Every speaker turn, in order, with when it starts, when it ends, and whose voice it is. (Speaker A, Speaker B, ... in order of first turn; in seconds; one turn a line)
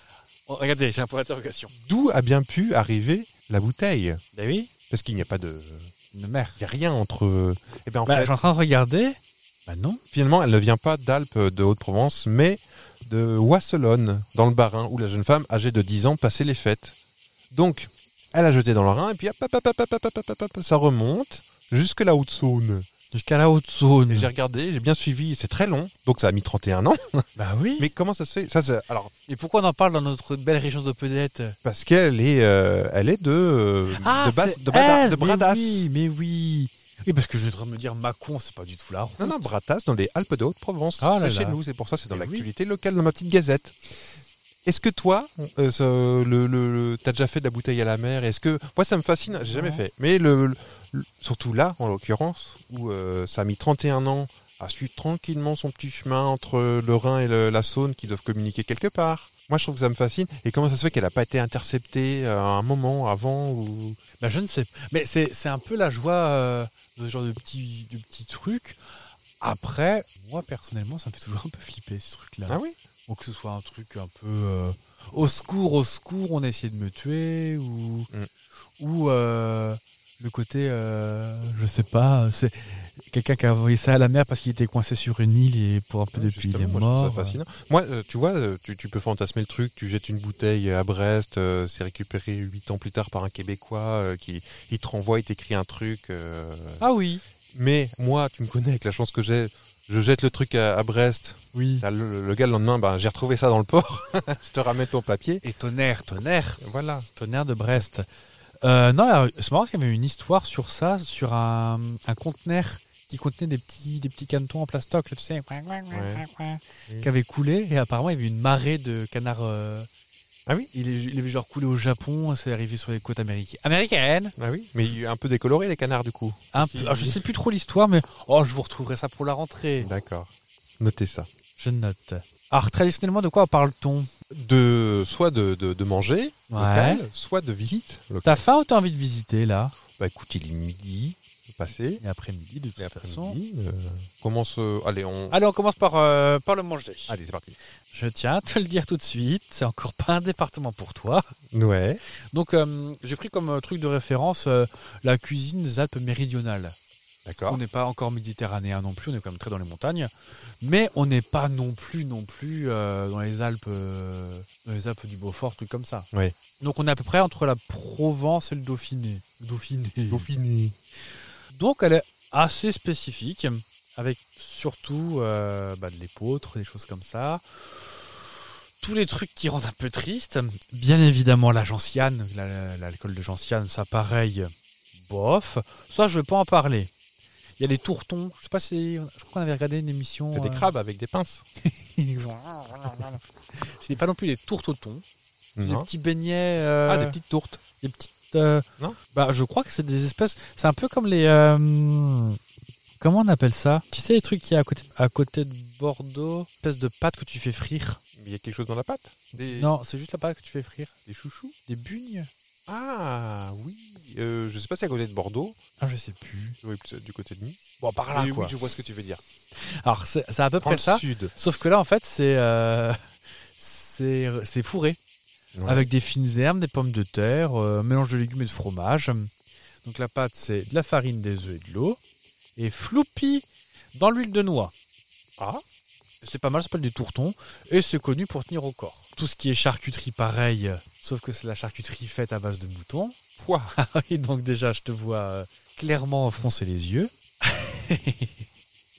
Speaker A: 0.5-1.7
Speaker B: 1.8-4.2
Speaker A: 4.3-4.7
Speaker B: 4.9-5.9
Speaker A: 6.1-6.6
Speaker B: 6.6-8.3
Speaker A: 8.1-10.0
Speaker B: 10.1-16.9
Speaker B: 17.5-22.9
Speaker A: 23.1-24.3
Speaker B: 24.1-27.3
Speaker A: 27.4-27.9
Speaker B: 27.8-29.1
Speaker A: 29.3-31.6
Speaker B: 31.6-35.9
Speaker A: 33.9-39.5
Speaker B: 39.2-43.8
Speaker A: 41.0-41.6
Speaker A: 42.1-42.5
Speaker B: 44.6-64.0
Speaker A: 49.4-49.8
Speaker A: 64.2-68.8
Speaker A: 69.4-78.1
Speaker B: 72.5-72.8
Speaker A: 78.8-87.4
Speaker B: 86.1-96.8
Speaker A: 96.8-97.2
Speaker B: 97.5-105.4
Speaker A: 101.5-101.8
Speaker A: 105.4-106.6
Speaker B: 106.6-107.1
Speaker A: 107.1-108.1
Speaker A: 108.6-119.9
Speaker B: 115.9-116.2
Speaker A: 120.7-124.3
Speaker B: 124.4-127.2
Speaker A: 126.5-129.9
Speaker B: 129.8-131.3
Speaker A: 131.6-134.1
Speaker B: 134.3-138.4
Speaker A: 136.5-137.0
Speaker A: 138.2-139.8
Speaker B: 140.0-142.0
Speaker A: 142.0-143.4
Speaker B: 142.8-145.3
Speaker A: 145.3-147.2
Speaker B: 147.1-147.6
Speaker A: 147.9-151.3
Speaker B: 151.5-152.0
Speaker A: 152.3-156.8
Speaker B: 157.2-157.6
Speaker A: 157.5-160.1
Speaker A: 160.6-166.1
Speaker A: 166.6-170.3
Speaker B: 170.1-170.7
Speaker A: 171.5-178.1
Speaker A: 178.8-186.9
Speaker A: 187.6-190.7
Speaker B: 190.3-191.4
Speaker A: 191.6-195.0
Speaker B: 195.6-195.9
Speaker A: 195.6-197.2
Speaker B: 196.8-197.6
Speaker A: 197.8-202.4
Speaker A: 203.0-208.0
Speaker B: 208.2-209.7
Speaker A: 209.5-211.0
Speaker B: 211.1-211.5
Speaker A: 211.6-212.3
Speaker B: 212.7-215.6
Speaker A: 215.8-216.6
Speaker B: 216.6-219.2
Speaker A: 217.8-218.5
Speaker A: 219.6-223.0
Speaker B: 220.6-221.3
Speaker A: 223.6-225.0
Speaker B: 225.5-225.9
Speaker A: 225.7-229.3
Speaker A: 229.8-232.0
Speaker A: 232.6-234.7
Speaker B: 235.4-235.6
Speaker A: 236.2-243.2
Speaker B: 243.4-243.7
Speaker A: 243.7-248.4